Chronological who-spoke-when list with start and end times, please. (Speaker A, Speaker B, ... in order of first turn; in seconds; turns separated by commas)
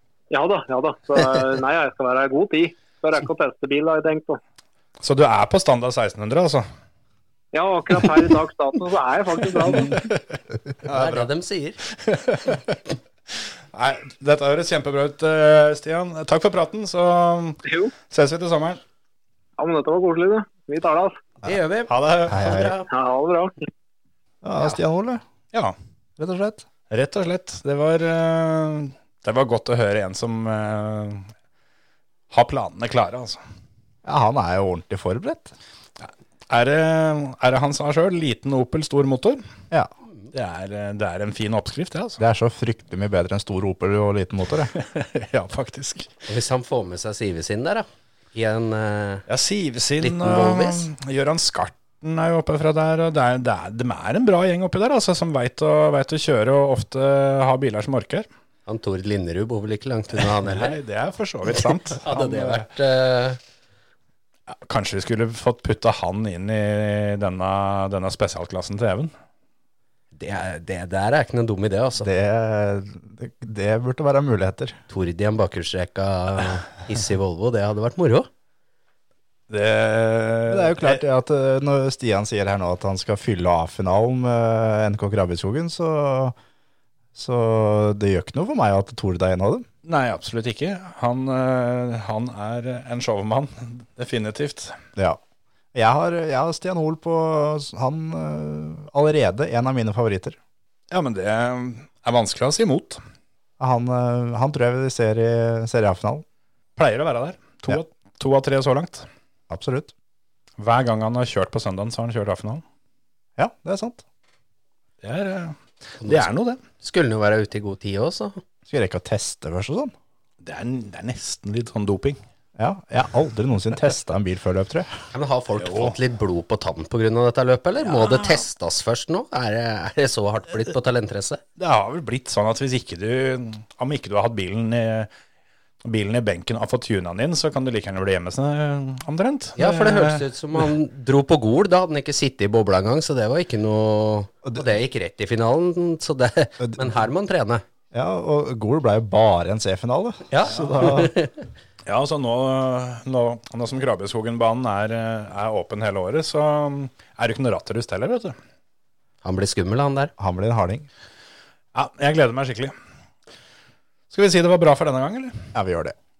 Speaker A: 0.3-4.4, Speaker B: 5.0-6.7, Speaker A: 7.5-10.0, Speaker B: 9.8-10.1, Speaker B: 10.8-11.3, Speaker C: 10.9-11.8, Speaker B: 11.9-12.8, Speaker B: 13.3-18.8, Speaker A: 17.6-17.9, Speaker A: 19.6-21.2, Speaker C: 21.4-22.9, Speaker B: 21.9-22.7, Speaker A: 22.9-23.5, Speaker D: 24.4-25.2, Speaker D: 26.2-26.6, Speaker B: 26.9-31.3, Speaker B: 32.3-33.4, Speaker D: 34.0-35.5, Speaker B: 36.0-39.4, Speaker B: 40.3-42.2, Speaker D: 42.2-44.7, Speaker B: 44.7-46.1, Speaker C: 46.3-49.2, Speaker B: 49.3-58.3, Speaker C: 50.0-50.9, Speaker C: 58.7-60.8, Speaker B: 60.1-62.6, Speaker C: 61.5-63.4, Speaker B: 64.6-69.1, Speaker C: 70.1-72.1, Speaker D: 72.0-74.8, Speaker C: 74.9-78.3, Speaker B: 79.5-81.0, Speaker D: 80.5-86.3, Speaker D: 87.1-89.7, Speaker B: 89.8-94.8, Speaker D: 95.7-100.4, Speaker B: 100.9-103.0, Speaker D: 103.6-106.2, Speaker B: 106.8-109.0, Speaker D: 109.5-109.9, Speaker B: 110.6-112.6, Speaker D: 113.4-114.0, Speaker B: 115.0-116.6, Speaker C: 116.0-116.3, Speaker C: 116.8-118.4, Speaker D: 118.7-119.9, Speaker B: 120.4-122.2, Speaker D: 122.6-124.9, Speaker C: 125.1-131.4, Speaker B: 125.5-126.0, Speaker B: 127.8-128.4, Speaker B: 131.6-135.1, Speaker B: 135.8-140.7, Speaker C: 139.6-147.6, Speaker D: 146.6-146.9, Speaker D: 147.9-151.1, Speaker C: 150.3-151.3, Speaker B: 151.8-158.3, Speaker C: 159.2-160.1, Speaker D: 160.2-160.9, Speaker B: 161.7-162.7, Speaker B: 164.1-165.4, Speaker D: 165.5-165.9